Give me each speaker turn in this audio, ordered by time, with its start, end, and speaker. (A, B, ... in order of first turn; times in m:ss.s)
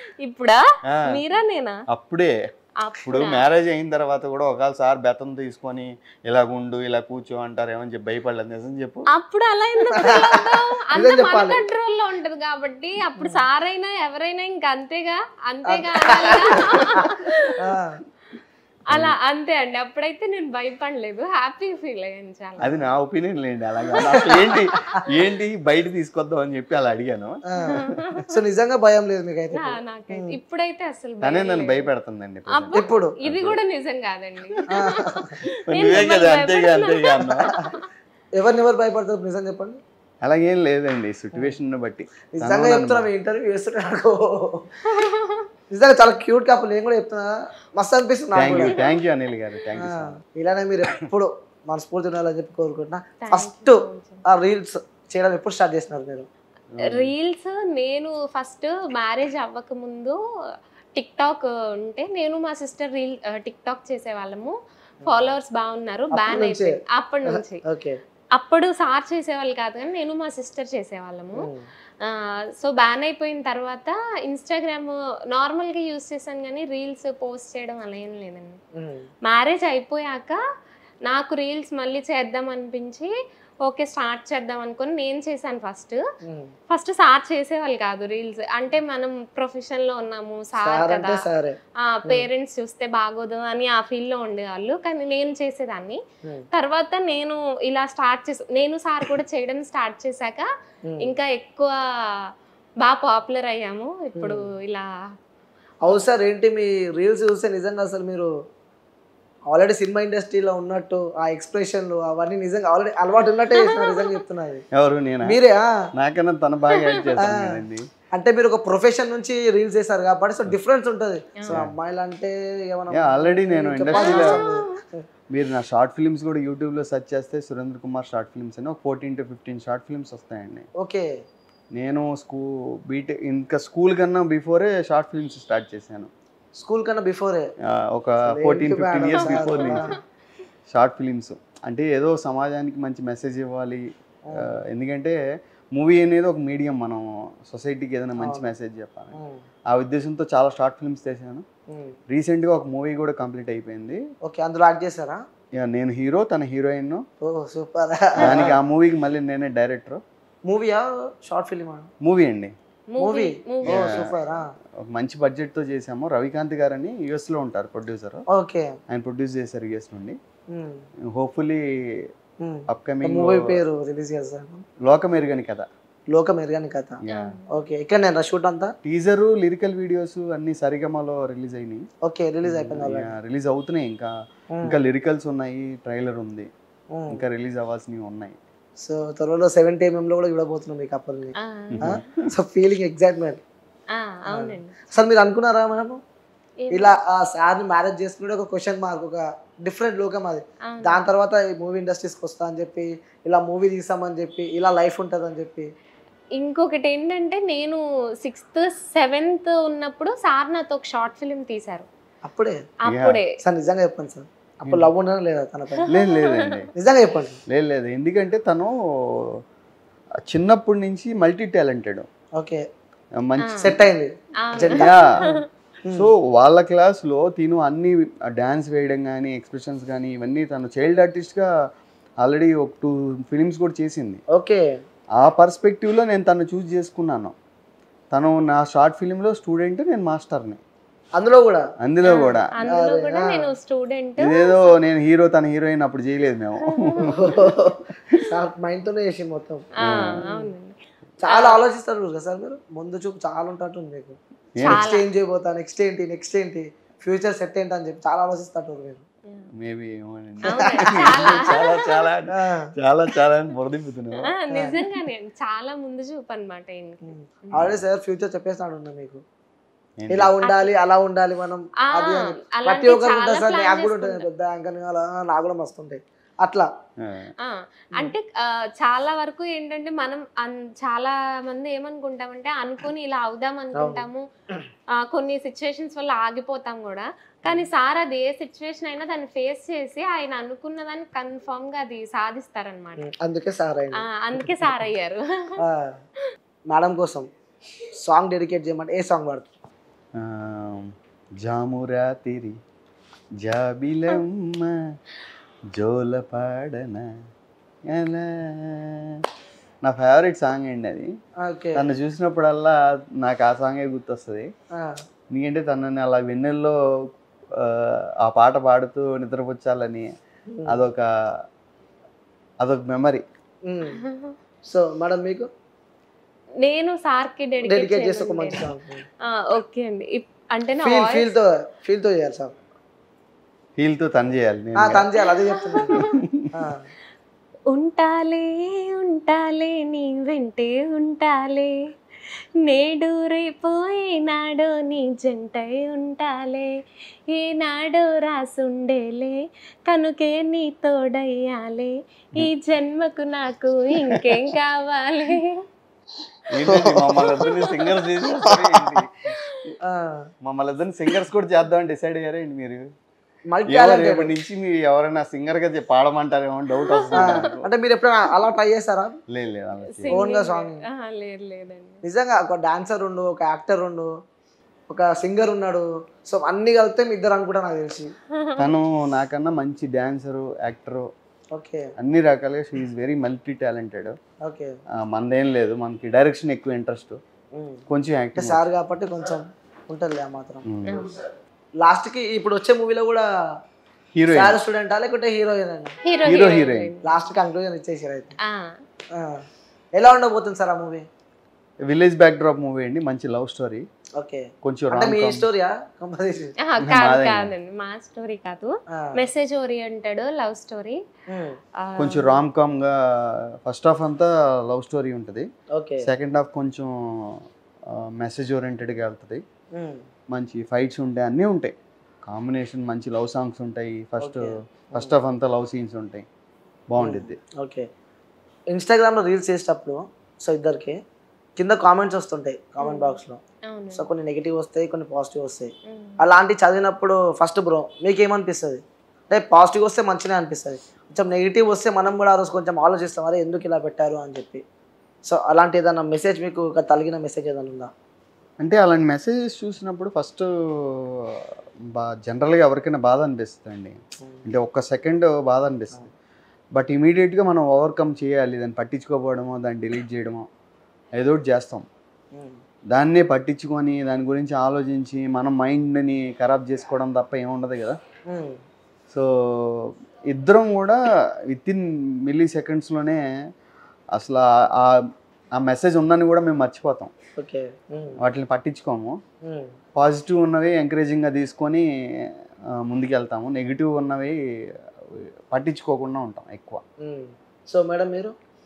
0:00.2-0:01.8 A
0:00.9-0:01.2 B
0:01.9-0:02.3 B
0:02.8-0:03.4 A
0:03.0-0:09.1 B
0:09.1-0:17.6 A
0:09.9-0:11.6 C
0:13.2-0:13.4 C
0:15.7-0:17.1 C
0:17.6-0:18.0 C
0:18.9-0:22.7 A
0:22.6-0:27.9 B
0:24.0-0:24.3 A
0:24.0-0:24.5 C
0:27.6-0:28.3 A
0:28.3-0:30.3 C
0:29.5-0:31.9 A
0:31.2-0:33.6 B
0:32.5-0:37.9 A
0:32.7-0:33.2 C
0:34.5-0:35.0 B
0:34.7-0:35.3 C
0:35.7-0:37.5 B
0:37.2-0:37.7 C
0:38.4-0:39.8 C
0:40.2-0:43.1 B
0:42.4-0:44.7 C
0:44.9-0:45.5 A
0:45.7-0:48.8 C
0:48.4-0:50.2 B
0:48.6-0:49.0 A
0:49.8-0:56.3 C
0:53.2-0:54.2 A
0:56.8-0:57.1 B
0:56.8-1:00.2 A
1:01.0-1:04.5 A
1:05.0-1:05.3 C
1:05.0-1:07.6 A
1:06.1-1:08.0 C
1:08.4-1:11.5 A
1:12.0-1:18.6 A
1:18.8-1:19.0 C
1:19.3-1:20.4 A
1:21.1-1:23.1 A
1:23.7-1:26.0 A
1:26.3-1:26.5 C
1:26.7-1:31.2 A
1:30.6-1:32.3 C
1:31.8-1:36.0 A
1:36.5-1:40.5 A
1:40.9-1:41.2 C
1:41.0-1:41.7 A
1:42.8-1:44.9 A
1:44.2-1:44.5 C
1:45.8-1:48.3 C
1:49.5-1:54.6 C
1:53.6-1:54.2 A
1:54.8-1:55.4 B
1:55.2-1:55.7 C
1:56.0-1:57.8 B
1:56.7-1:57.0 A
1:57.2-1:57.6 C
1:58.2-2:05.0 C
2:02.9-2:04.4 B
2:04.0-2:04.8 A
2:05.3-2:10.7 B
2:10.8-2:11.1 C
2:11.8-2:16.1 B
2:16.6-2:17.5 C
2:17.7-2:19.9 B
2:18.3-2:19.8 C
2:19.2-2:20.0 A
2:20.7-2:23.8 B
2:24.3-2:24.6 C
2:24.4-2:25.2 B
2:25.8-2:29.2 B
2:28.2-2:28.5 C
2:29.1-2:29.4 C
2:29.7-2:31.4 B
2:32.1-2:34.0 B
2:34.3-2:35.2 C
2:35.6-2:37.0 B
2:37.2-2:38.6 C
2:38.2-2:40.0 B
2:40.5-2:41.9 C
2:42.0-2:42.5 B
2:42.9-2:44.1 A
2:43.0-2:44.4 C
2:43.7-2:44.1 B
2:44.8-2:48.2 B
2:48.3-2:48.7 C
2:48.9-2:50.2 B
2:50.5-2:50.8 C
2:51.1-2:51.6 B
2:52.4-2:54.7 C
2:52.7-2:53.6 B
2:54.9-2:55.7 B
2:56.1-2:57.0 C
2:57.0-2:57.3 B
2:57.1-2:57.6 A
2:57.5-2:58.7 C
2:58.8-3:01.9 B
3:02.1-3:03.1 C
3:02.4-3:04.1 B
3:04.6-3:06.5 B
3:06.9-3:07.2 C
3:07.1-3:08.4 B
3:08.8-3:13.4 C
3:11.4-3:12.0 A
3:11.8-3:12.2 B
3:13.9-3:14.8 A
3:14.3-3:16.0 C
3:16.6-3:17.0 A
3:16.7-3:25.7 C
3:20.7-3:21.0 A
3:26.4-3:31.9 A
3:32.2-3:32.6 C
3:32.8-3:33.3 A
3:32.9-3:33.2 B
3:33.4-3:35.9 C
3:34.7-3:34.9 B
3:35.8-3:36.5 A
3:35.9-3:36.7 B
3:36.8-3:37.4 C
3:37.5-3:38.7 B
3:40.3-3:42.1 B
3:43.2-3:43.7 B
3:43.4-3:43.8 A
3:43.6-3:46.1 C
3:44.4-3:45.5 A
3:44.7-3:45.0 B
3:45.9-3:51.5 B
3:52.2-3:54.2 B
3:54.3-3:54.7 C
3:55.2-3:57.4 B
3:58.1-4:00.6 B
4:01.2-4:01.6 C
4:01.8-4:02.6 B
4:02.0-4:04.8 A
4:02.7-4:03.5 C
4:04.2-4:07.5 B
4:06.7-4:07.1 A
4:07.0-4:10.5 C
4:09.8-4:10.8 A
4:09.8-4:10.2 B
4:11.2-4:19.0 C
4:11.3-4:11.6 A
4:14.6-4:14.9 B
4:14.6-4:15.1 A
4:19.6-4:24.3 B
4:20.5-4:21.6 C
4:20.5-4:22.1 A
4:22.3-4:22.7 C
4:24.2-4:27.7 A
4:27.0-4:29.2 C
4:27.6-4:27.8 B
4:30.0-4:30.3 B
4:30.1-4:36.7 C
4:30.4-4:30.7 A
4:31.9-4:34.3 A
4:37.0-4:37.3 B
4:37.4-4:44.2 A
4:43.8-4:44.6 C
4:45.0-4:53.0 A
4:53.0-4:54.9 C
4:54.0-4:55.6 A
4:55.6-4:56.0 C
4:56.7-4:57.3 C
4:58.0-4:59.5 C
5:00.2-5:00.9 B
5:01.4-5:02.6 B
5:03.4-5:04.8 B
5:05.8-5:07.1 B
5:07.9-5:09.0 B
5:09.8-5:11.1 B
5:11.4-5:11.8 C
5:11.8-5:14.5 B
5:15.3-5:16.8 B
5:17.6-5:20.1 B
5:20.5-5:20.9 C
5:20.7-5:21.1 B
5:22.6-5:23.2 B
5:23.7-5:24.0 C
5:23.9-5:24.4 A
5:24.7-5:25.5 C
5:26.6-5:28.7 A
5:27.6-5:29.0 C
5:29.3-5:31.3 A
5:30.8-5:32.5 C
5:33.8-5:35.1 B
5:34.8-5:36.0 C
5:35.4-5:36.2 A
5:35.8-5:36.5 B
5:36.5-5:36.9 C
5:37.7-5:41.8 A
5:42.7-5:46.7 A
5:47.3-5:49.4 A
5:49.9-5:55.6 A
5:56.5-5:59.3 B
5:56.7-5:57.5 C
5:57.4-5:57.9 A
5:58.4-5:59.0 C
5:59.8-6:00.2 C
6:00.4-6:02.9 B
6:03.5-6:04.3 C
6:03.7-6:07.6 B
6:06.9-6:07.4 A
6:07.1-6:09.1 C
6:09.3-6:10.2 B
6:09.9-6:12.0 A
6:10.1-6:10.8 C
6:12.0-6:14.1 C
6:14.9-6:18.1 C
6:18.4-6:18.7 A
6:18.6-6:21.1 B
6:21.5-6:21.9 C
6:22.0-6:24.2 B
6:24.4-6:24.7 C
6:25.0-6:27.2 B
6:27.6-6:27.8 C
6:27.9-6:28.6 B
6:28.4-6:30.6 C
6:30.7-6:31.1 B
6:30.8-6:31.2 A
6:31.8-6:33.3 C
6:34.2-6:34.6 B
6:34.3-6:36.0 C
6:36.1-6:37.1 A
6:36.3-6:36.9 B
6:37.0-6:38.4 C
6:38.5-6:38.7 A
6:39.2-6:39.4 C
6:40.0-6:41.0 C
6:41.9-6:43.8 B
6:44.2-6:46.5 C
6:44.6-6:45.5 B
6:46.6-6:51.0 A
6:46.8-6:47.5 B
6:51.3-6:51.6 C
6:51.8-6:52.4 A
6:52.0-6:53.0 B
6:53.6-6:55.5 B
6:55.8-6:56.0 C
6:56.0-6:56.9 B
6:57.9-6:59.4 B
6:59.8-7:00.0 C
7:00.3-7:01.7 B
7:02.3-7:06.2 B
7:04.2-7:05.2 C
7:06.9-7:07.4 B
7:07.0-7:07.9 C
7:08.7-7:11.0 C
7:11.6-7:13.4 C
7:12.8-7:14.1 A
7:14.0-7:24.6 C
7:15.9-7:16.2 A
7:25.2-7:27.9 C
7:28.6-7:30.5 B
7:32.0-7:36.1 B
7:36.8-7:40.5 B
7:41.2-7:41.9 B
7:42.9-7:48.0 B
7:48.3-7:48.6 C
7:49.8-7:51.0 B
7:51.5-7:53.2 B
7:54.2-7:54.9 B
7:55.6-7:57.1 B
7:57.4-7:58.2 C
7:58.2-7:59.2 B
7:59.5-7:59.7 C
8:00.0-8:01.9 B
8:02.8-8:04.4 B
8:05.5-8:06.8 B
8:07.0-8:08.4 C